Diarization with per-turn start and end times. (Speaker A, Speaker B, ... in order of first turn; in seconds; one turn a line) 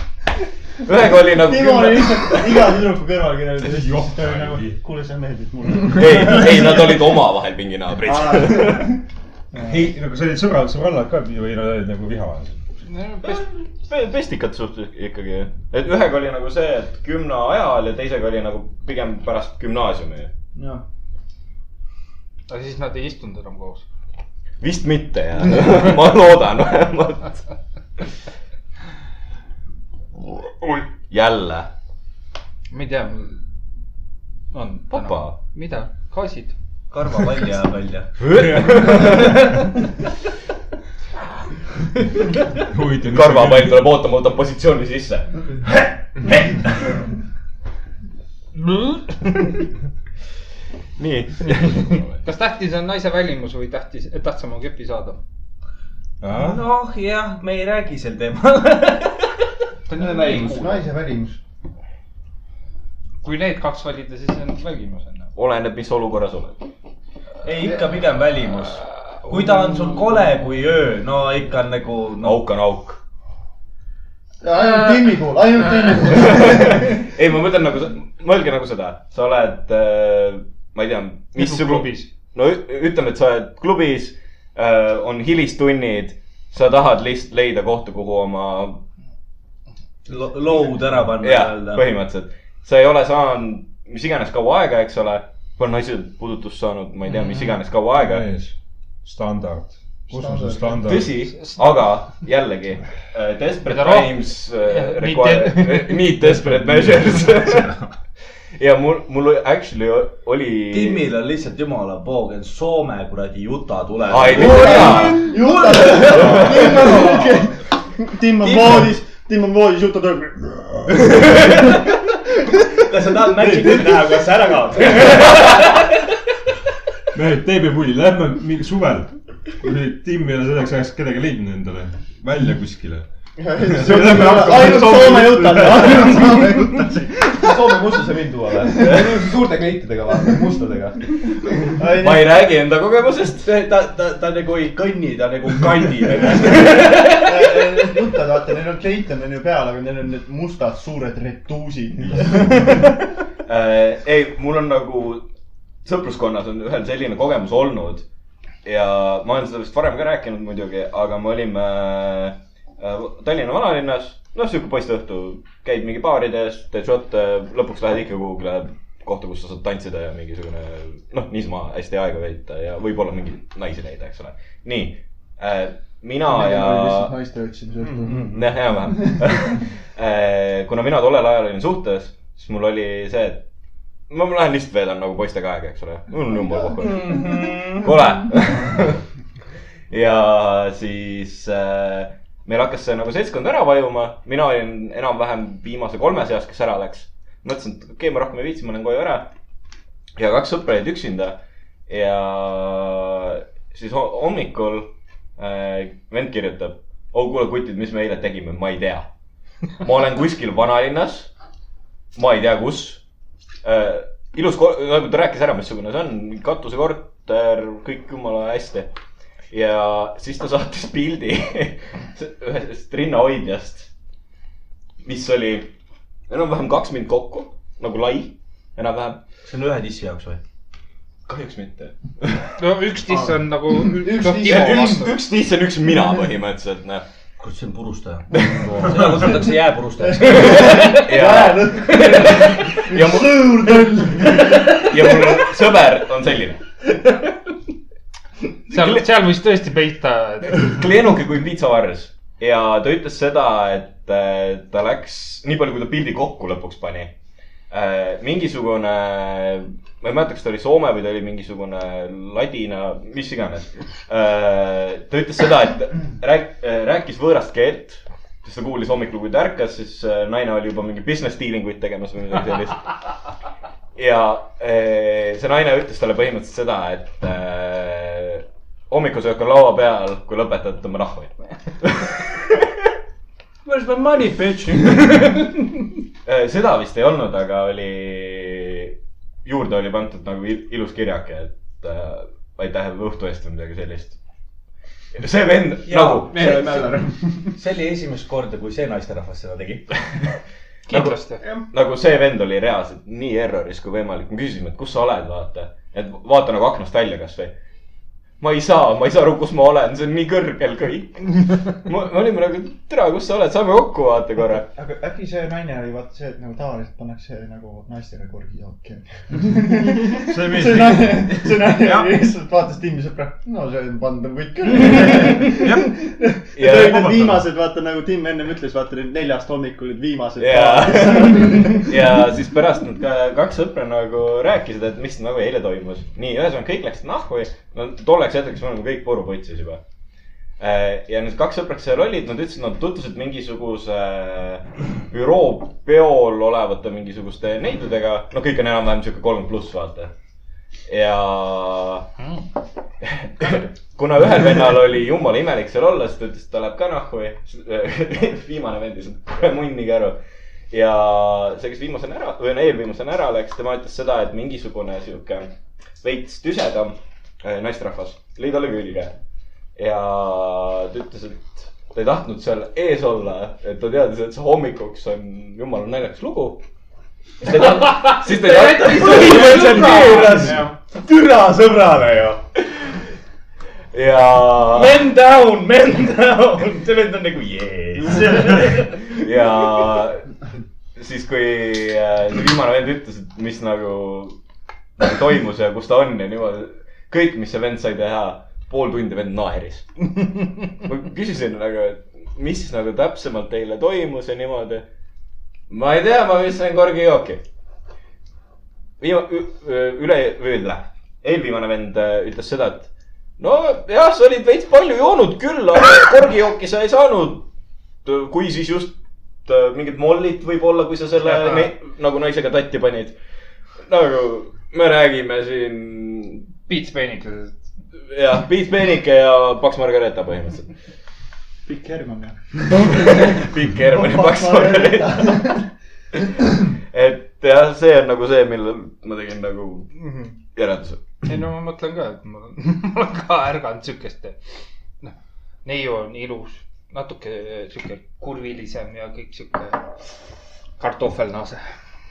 Speaker A: 0.8-2.8
Speaker B: 1.3-7.2
Speaker C: 3.6-4.8
Speaker A: 5.9-8.9
Speaker B: 8.0-9.0
Speaker B: 9.5-9.9
Speaker C: 9.6-12.6
Speaker D: 12.8-13.5
Speaker A: 13.2-20.3
Speaker B: 20.6-20.8
Speaker D: 22.5-23.9
Speaker A: 24.6-27.4
Speaker A: 31.1-31.7
Speaker D: 32.7-33.4
Speaker D: 34.5-36.5
Speaker A: 34.9-35.4
Speaker E: 36.9-38.2
Speaker A: 38.2-39.5
Speaker C: 42.7-43.8
Speaker A: 43.0-45.5
Speaker A: 51.0-52.2
Speaker D: 52.2-55.2
Speaker C: 56.2-56.6
Speaker E: 56.4-59.4
Speaker D: 59.9-60.5
Speaker E: 60.0-60.6
Speaker B: 60.0-61.4
Speaker D: 63.2-65.3
Speaker A: 65.4-66.6
Speaker E: 67.4-72.4
Speaker A: 72.2-73.0
Speaker B: 74.4-77.1
Speaker A: 76.2-88.8
Speaker D: 81.4-82.1
Speaker E: 90.1-91.9
Speaker A: 91.2-98.3
Speaker C: 97.9-101.2
Speaker B: 100.1-100.9
Speaker A: 100.8-107.8
Speaker D: 103.7-106.0
Speaker C: 106.2-107.7
Speaker A: 108.6-111.0
Speaker E: 110.7-117.3
Speaker A: 114.1-115.3
Speaker B: 114.3-122.7
Speaker A: 116.1-116.8
Speaker E: 118.4-118.9
Speaker E: 121.3-121.7
Speaker E: 122.8-125.9
Speaker C: 123.4-124.0
Speaker C: 127.1-133.1
Speaker B: 133.4-137.3
Speaker C: 133.6-135.9
Speaker F: 134.7-135.1
Speaker E: 135.9-136.1
Speaker F: 137.4-141.0
Speaker E: 137.4-139.4
Speaker B: 141.8-142.4
Speaker A: 142.0-143.5
Speaker E: 143.4-147.4
Speaker B: 147.2-152.9
Speaker A: 153.5-155.3
Speaker A: 155.8-158.1
Speaker A: 158.6-177.1
Speaker B: 176.2-178.2
Speaker E: 178.1-178.4
Speaker A: 178.3-183.4
Speaker B: 178.8-179.6
Speaker A: 184.1-189.0
Speaker E: 186.8-187.9
Speaker A: 189.9-199.3
Speaker A: 200.2-209.1
Speaker A: 209.8-211.3
Speaker A: 212.2-213.0
Speaker A: 213.6-218.9
Speaker A: 219.5-223.9
Speaker A: 225.0-225.7
Speaker A: 226.3-229.2
Speaker E: 229.4-230.4
Speaker A: 231.3-232.5
Speaker D: 232.6-235.1
Speaker B: 233.8-235.1
Speaker A: 234.5-237.0
Speaker E: 237.4-241.4
Speaker A: 238.4-238.7
Speaker B: 240.2-245.4
Speaker A: 240.5-246.6
Speaker A: 248.7-249.0
Speaker D: 248.7-250.8
Speaker A: 250.6-257.1
Speaker A: 257.7-273.0
Speaker A: 274.0-282.3
Speaker E: 283.6-285.7
Speaker A: 286.2-294.2
Speaker A: 295.2-296.6
Speaker E: 295.9-300.0
Speaker F: 296.0-297.3
Speaker D: 300.9-301.4
Speaker A: 300.9-307.6
Speaker A: 308.4-314.7
Speaker B: 314.7-331.9
Speaker C: 320.2-322.0
Speaker C: 325.6-325.9
Speaker A: 326.5-327.4
Speaker A: 330.4-339.8
Speaker A: 340.6-350.1
Speaker A: 350.9-352.1
Speaker A: 353.0-360.2
Speaker A: 360.7-369.1
Speaker A: 369.8-376.6
Speaker A: 377.4-380.6
Speaker E: 377.5-382.4
Speaker D: 378.9-380.5
Speaker F: 380.3-380.7
Speaker A: 382.6-383.0
Speaker A: 383.9-385.0
Speaker E: 384.7-390.0
Speaker A: 389.0-390.3
Speaker A: 391.0-394.4
Speaker A: 395.0-404.9
Speaker A: 405.7-407.4
Speaker A: 409.0-417.5
Speaker A: 418.1-423.2
Speaker D: 421.2-421.7
Speaker A: 423.9-426.5
Speaker D: 426.7-427.6
Speaker A: 428.1-430.7
Speaker B: 431.7-435.7
Speaker A: 432.8-435.6
Speaker A: 436.9-439.9
Speaker D: 439.9-440.3
Speaker A: 440.5-441.3
Speaker D: 441.2-444.4
Speaker D: 445.6-449.9
Speaker D: 450.8-451.6